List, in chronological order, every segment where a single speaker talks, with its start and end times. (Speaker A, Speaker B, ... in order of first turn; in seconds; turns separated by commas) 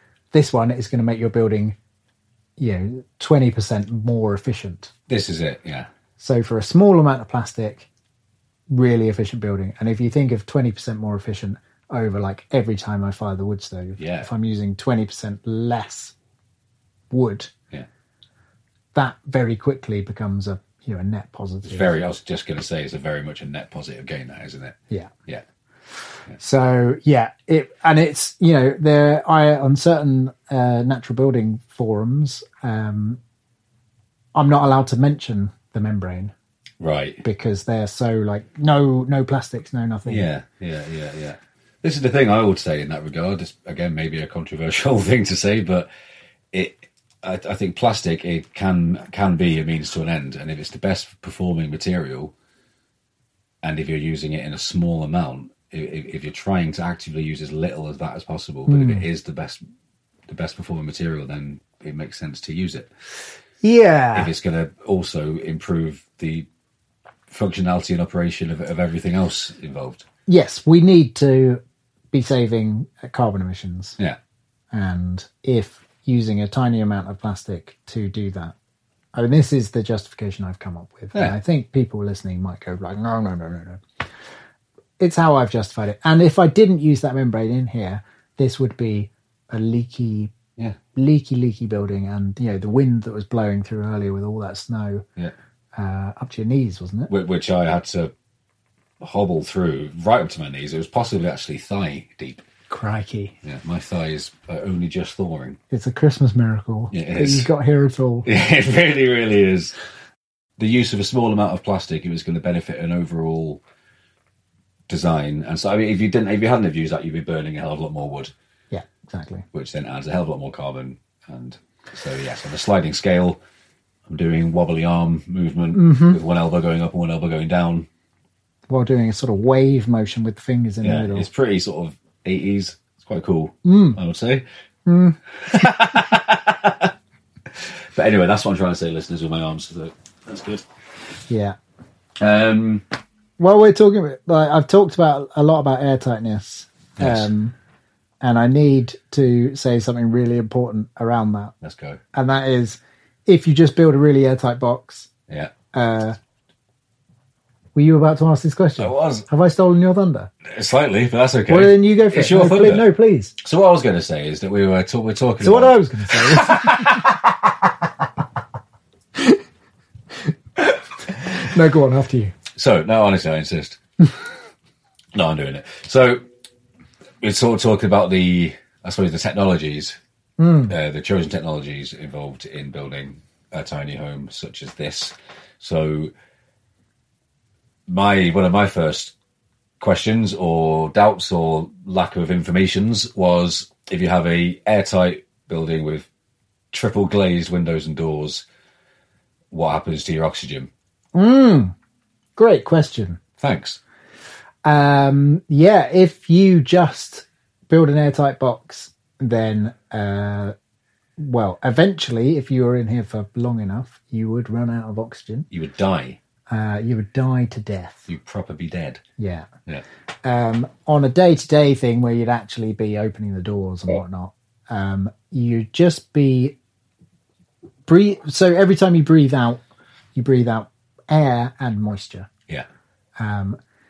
Speaker A: 0.3-1.8, Speaker A: 2.6-4.9, Speaker B: 5.1-5.9, Speaker A: 6.2-7.9, Speaker A: 8.7-16.1, Speaker B: 14.0-14.3, Speaker A: 17.1-17.5, Speaker A: 18.9-21.9, Speaker B: 21.6-25.4, Speaker A: 26.4-33.2, Speaker A: 34.4-36.3, Speaker B: 36.8-37.2, Speaker A: 37.2-40.3, Speaker B: 40.0-45.9, Speaker B: 46.5-52.3, Speaker B: 53.6-59.6, Speaker A: 58.7-59.0, Speaker B: 60.3-62.9, Speaker A: 63.6-64.3, Speaker B: 64.1-66.5, Speaker B: 67.3-70.0, Speaker A: 70.3-74.0, Speaker A: 74.7-78.5, Speaker A: 79.1-83.8, Speaker A: 85.0-90.3, Speaker A: 90.9-95.0, Speaker A: 95.8-97.1, Speaker B: 97.1-98.1, Speaker B: 99.0-102.4, Speaker A: 102.7-103.3, Speaker B: 103.4-105.6, Speaker A: 105.7-108.3, Speaker B: 106.9-107.5, Speaker B: 108.2-109.7, Speaker B: 110.6-113.6, Speaker B: 114.9-118.3, Speaker A: 118.7-119.4, Speaker B: 119.5-123.4, Speaker B: 124.1-127.9, Speaker A: 125.7-126.2, Speaker A: 128.7-131.3, Speaker B: 130.8-134.4, Speaker A: 133.6-134.0, Speaker A: 134.9-135.7, Speaker B: 135.4-136.9, Speaker B: 137.5-140.7, Speaker A: 141.3-141.6, Speaker B: 142.2-142.8, Speaker A: 143.4-147.5, Speaker B: 147.0-147.3, Speaker A: 148.2-151.5, Speaker B: 151.6-152.0, Speaker A: 152.1-155.1, Speaker B: 155.3-155.5, Speaker A: 155.7-156.2, Speaker A: 157.8-160.3, Speaker B: 158.8-159.3, Speaker B: 160.4-162.9, Speaker A: 161.5-163.3, Speaker B: 163.4-167.3, Speaker A: 165.4-167.0, Speaker A: 170.6-172.3, Speaker B: 172.5-173.8, Speaker B: 175.1-176.2, Speaker B: 177.2-180.0, Speaker A: 180.4-180.7, Speaker B: 180.7-186.1, Speaker B: 187.9-189.1, Speaker B: 189.8-196.1, Speaker B: 196.7-198.4, Speaker B: 199.5-200.7, Speaker A: 201.1-201.7, Speaker A: 202.4-203.2, Speaker B: 203.4-203.8, Speaker A: 204.6-210.5, Speaker A: 211.2-215.5, Speaker B: 215.5-216.2, Speaker A: 216.5-218.1, Speaker B: 218.1-219.0, Speaker A: 219.2-219.5, Speaker A: 220.2-226.6, Speaker A: 227.9-229.6, Speaker A: 230.1-232.3, Speaker A: 233.2-233.6